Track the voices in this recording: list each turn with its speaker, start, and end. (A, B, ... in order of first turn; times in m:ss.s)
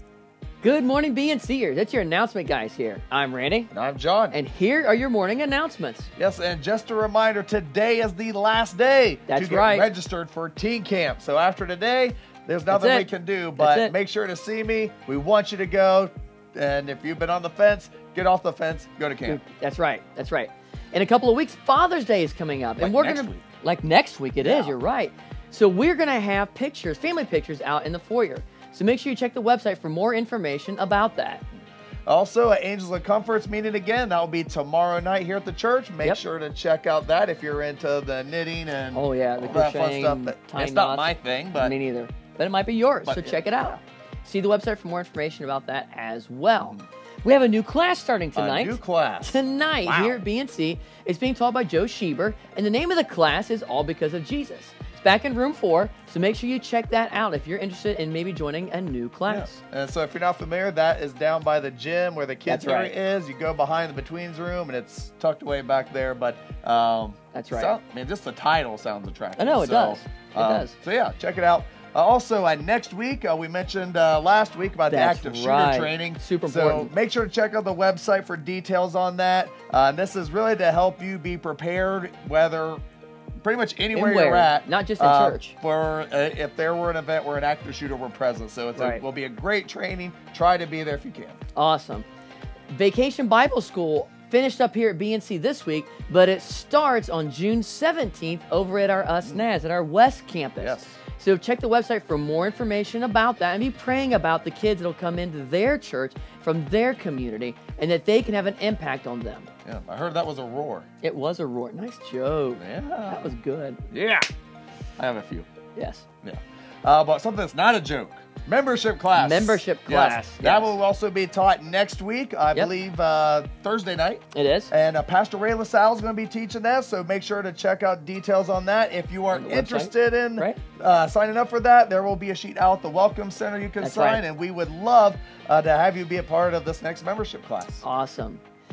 0:00.6-0:03.7 A
0:03.7-0:04.4 B
0:04.3-0:06.1 A
0:06.2-0:19.4 B
0:09.3-0:09.9 A
0:12.7-0:13.9 A
0:19.3-0:31.4 A
0:22.8-0:23.4 B
0:24.4-0:24.8 B
0:32.0-0:41.8 B
0:38.9-0:59.6 A
0:43.0-0:43.8 B
0:48.3-0:50.2 B
0:59.3-1:22.8 B
1:02.4-1:02.9 A
1:07.3-1:07.7 A
1:09.4-1:10.8 A
1:14.9-1:16.9 A
1:23.4-1:31.4 B
1:23.9-1:25.6 A
1:28.8-1:29.0 A
1:31.6-1:32.0 A
1:32.7-1:49.5 A
1:40.6-1:41.0 B
1:49.6-1:50.9 B
1:51.0-1:53.8 A
1:52.6-1:53.3 B
1:53.9-1:54.3 B
1:55.0-1:55.5 B
1:55.8-1:56.0 A
1:56.2-2:17.8 B
1:59.2-2:00.7 A
2:04.3-2:04.7 A
2:09.3-2:10.6 A
2:13.8-2:14.2 A
2:17.8-2:18.4 A